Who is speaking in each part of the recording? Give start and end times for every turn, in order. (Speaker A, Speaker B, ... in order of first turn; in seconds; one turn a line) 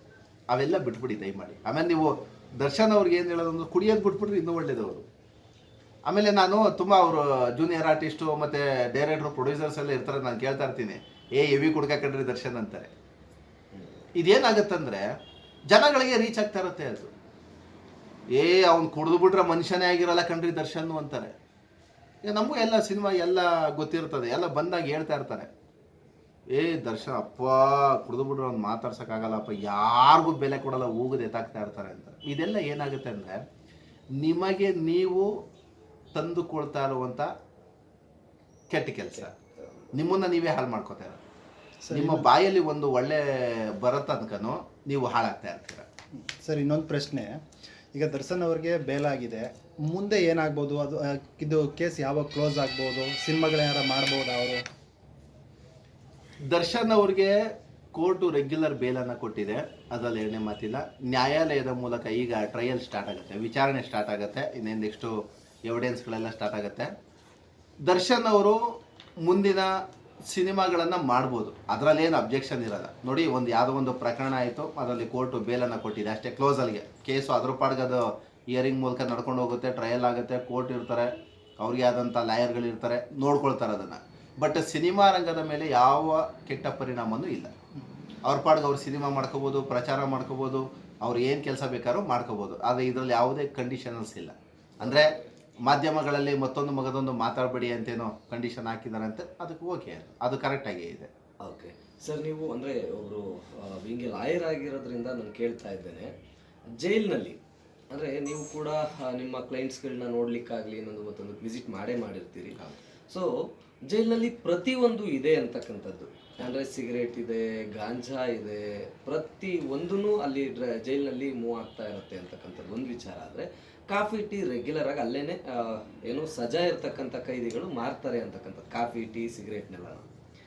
Speaker A: 0.5-5.1
Speaker A: 6.1-12.9
Speaker A: 14.2-15.1
Speaker A: 15.7-17.1
Speaker A: 18.3-21.3
Speaker A: 22.2-25.5
Speaker A: 26.5-33.4
Speaker A: 34.2-35.3
Speaker A: 36.1-37.3
Speaker A: 38.7-39.3
Speaker A: 39.9-41.2
Speaker B: 41.8-42.3
Speaker A: 41.9-45.9
Speaker B: 46.4-47.4
Speaker B: 47.9-54.6
Speaker A: 56.5-57.4
Speaker A: 57.9-65.1
Speaker A: 65.7-66.9
Speaker A: 67.8-68.6
Speaker A: 69.2-69.7
Speaker A: 70.3-87.5
Speaker A: 88.2-95.1
Speaker A: 95.7-101.1
Speaker C: 101.4-106.1
Speaker C: 106.8-107.4
Speaker C: 107.9-113.3
Speaker C: 113.9-130.1